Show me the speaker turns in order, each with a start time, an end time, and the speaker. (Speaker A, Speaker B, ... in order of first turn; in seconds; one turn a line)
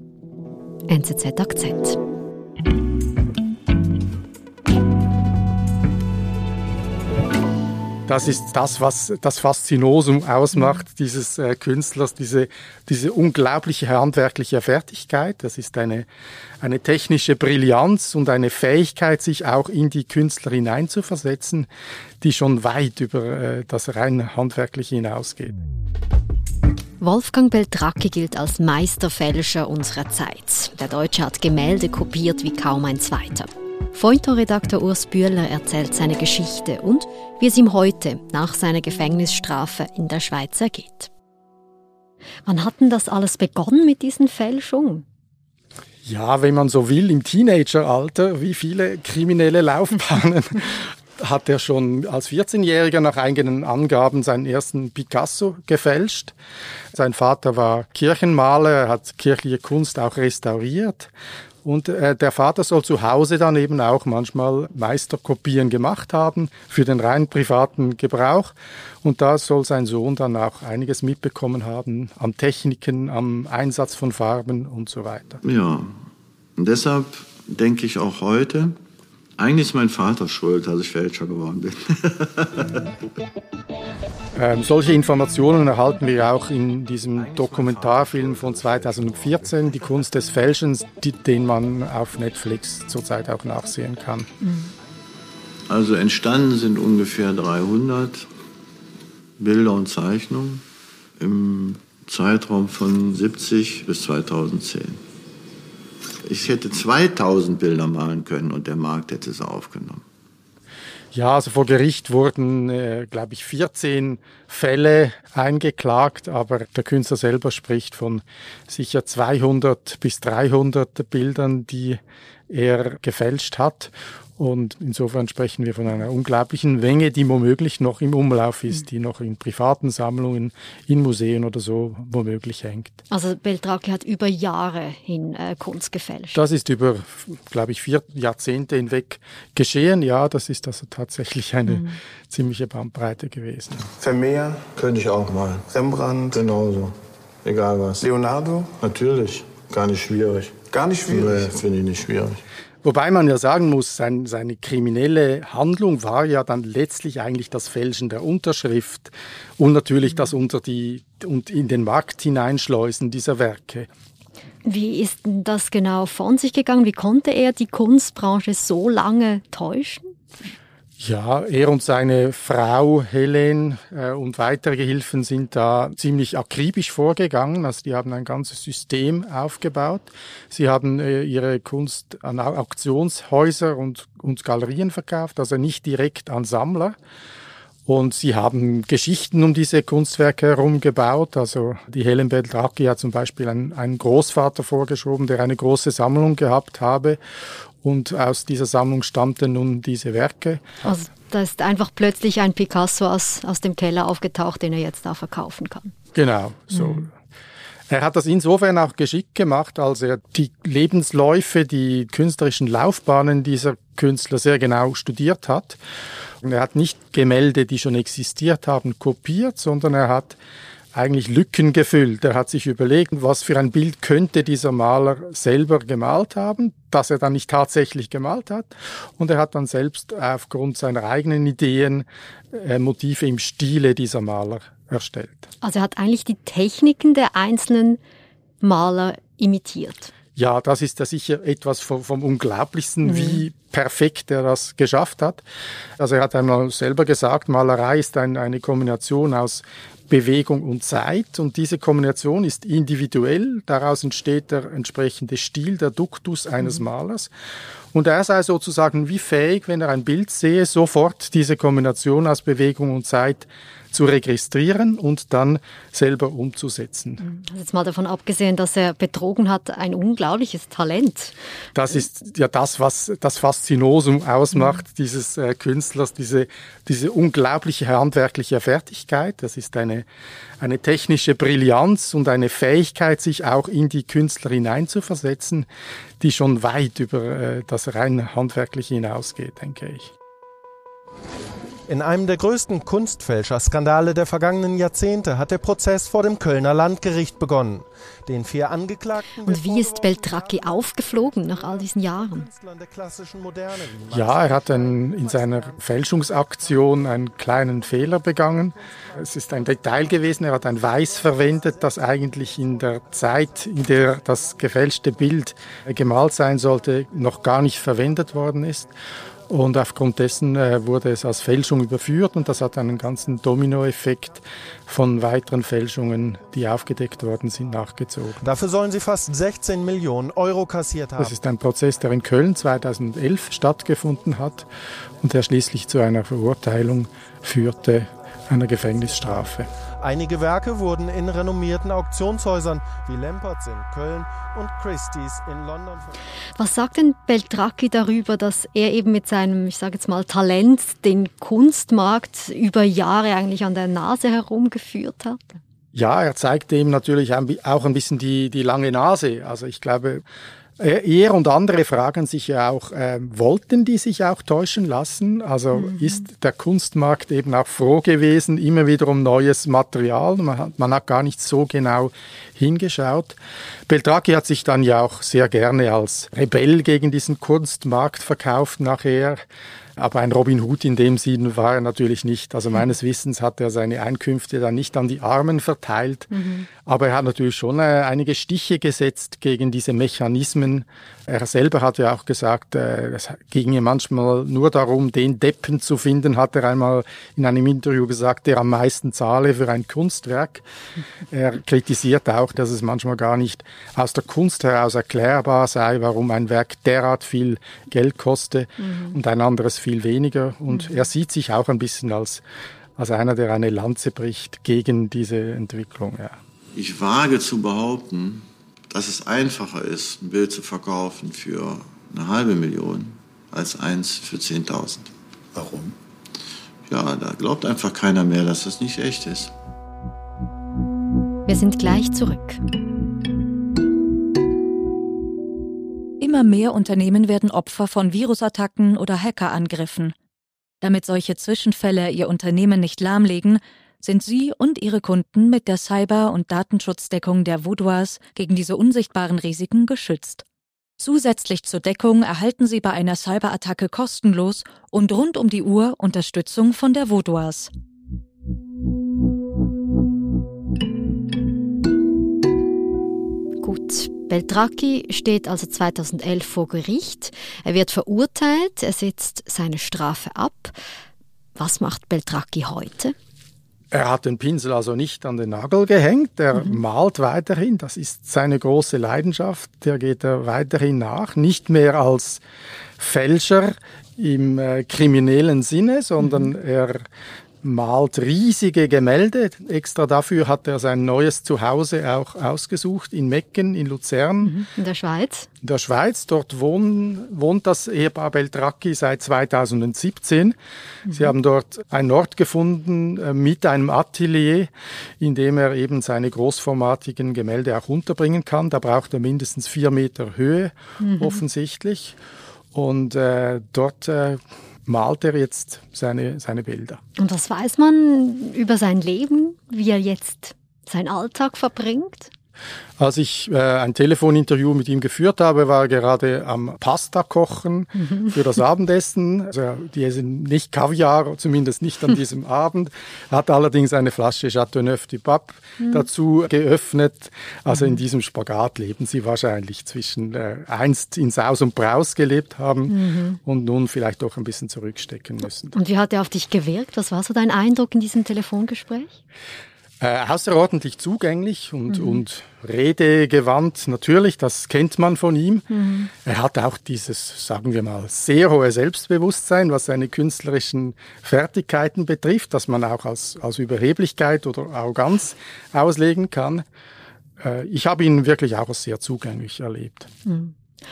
Speaker A: 0.9-2.0
Speaker B: 8.1-16.1
Speaker B: 16.6-21.7
Speaker B: 22.2-25.6
Speaker A: 27.0-41.1
Speaker A: 42.5-45.0
Speaker B: 46.0-56.4
Speaker B: 56.9-61.1
Speaker B: 61.6-75.4
Speaker C: 75.4-75.9
Speaker C: 76.6-78.8
Speaker C: 79.4-82.8
Speaker B: 84.3-94.3
Speaker C: 87.2-89.2
Speaker A: 94.4-94.7
Speaker C: 95.7-98.3
Speaker C: 99.4-100.6
Speaker C: 101.2-105.0
Speaker C: 106.2-110.0
Speaker B: 111.1-133.0
Speaker A: 133.1-136.4
Speaker B: 136.3-143.9
Speaker A: 141.7-142.0
Speaker D: 143.9-152.4
Speaker B: 152.8-163.9
Speaker A: 164.7-170.2
Speaker B: 171.0-187.0
Speaker B: 187.9-197.2
Speaker B: 197.8-201.0
Speaker A: 200.8-205.9
Speaker B: 206.1-207.1
Speaker A: 206.7-207.0
Speaker B: 207.9-215.8
Speaker B: 216.4-220.4
Speaker B: 220.9-235.5
Speaker A: 235.6-238.0
Speaker A: 238.6-240.1
Speaker B: 240.4-245.4
Speaker A: 243.0-243.4
Speaker B: 246.0-257.3
Speaker B: 257.9-267.2
Speaker A: 267.2-271.4
Speaker B: 271.8-280.1
Speaker B: 280.6-285.7
Speaker B: 286.2-290.1
Speaker E: 291.9-307.1
Speaker A: 299.4-302.5
Speaker B: 304.1-319.0
Speaker E: 308.6-310.1
Speaker E: 310.8-312.8
Speaker B: 319.5-328.4
Speaker E: 328.4-331.3
Speaker B: 331.2-334.7
Speaker B: 335.2-339.7
Speaker E: 340.0-346.2
Speaker A: 346.6-355.6
Speaker B: 355.9-360.2
Speaker B: 360.8-373.4
Speaker A: 365.7-366.3
Speaker B: 373.9-379.4
Speaker B: 380.0-386.3
Speaker A: 386.3-386.7
Speaker B: 386.8-400.6
Speaker B: 401.3-412.4
Speaker A: 408.8-409.2
Speaker A: 410.7-411.1
Speaker B: 413.0-416.4
Speaker C: 416.8-425.9
Speaker C: 426.9-429.5
Speaker A: 431.5-432.6
Speaker F: 436.2-440.1
Speaker F: 440.8-450.4
Speaker F: 451.0-457.7
Speaker A: 463.6-470.8
Speaker A: 471.6-473.1
Speaker B: 473.9-482.4
Speaker B: 483.0-487.1
Speaker A: 486.2-486.5
Speaker B: 487.6-494.6
Speaker A: 494.4-495.5
Speaker B: 495.6-500.6
Speaker A: 501.1-501.3
Speaker B: 501.1-512.2
Speaker A: 511.0-511.4
Speaker B: 512.7-517.0
Speaker A: 517.2-522.3
Speaker B: 523.0-545.8
Speaker A: 528.0-528.3
Speaker A: 535.8-536.1
Speaker A: 537.7-538.0
Speaker A: 542.9-543.4
Speaker A: 545.7-549.2
Speaker B: 550.0-555.7
Speaker A: 551.9-552.2
Speaker A: 555.7-556.1
Speaker B: 556.2-566.6
Speaker B: 567.4-570.1
Speaker A: 570.3-570.5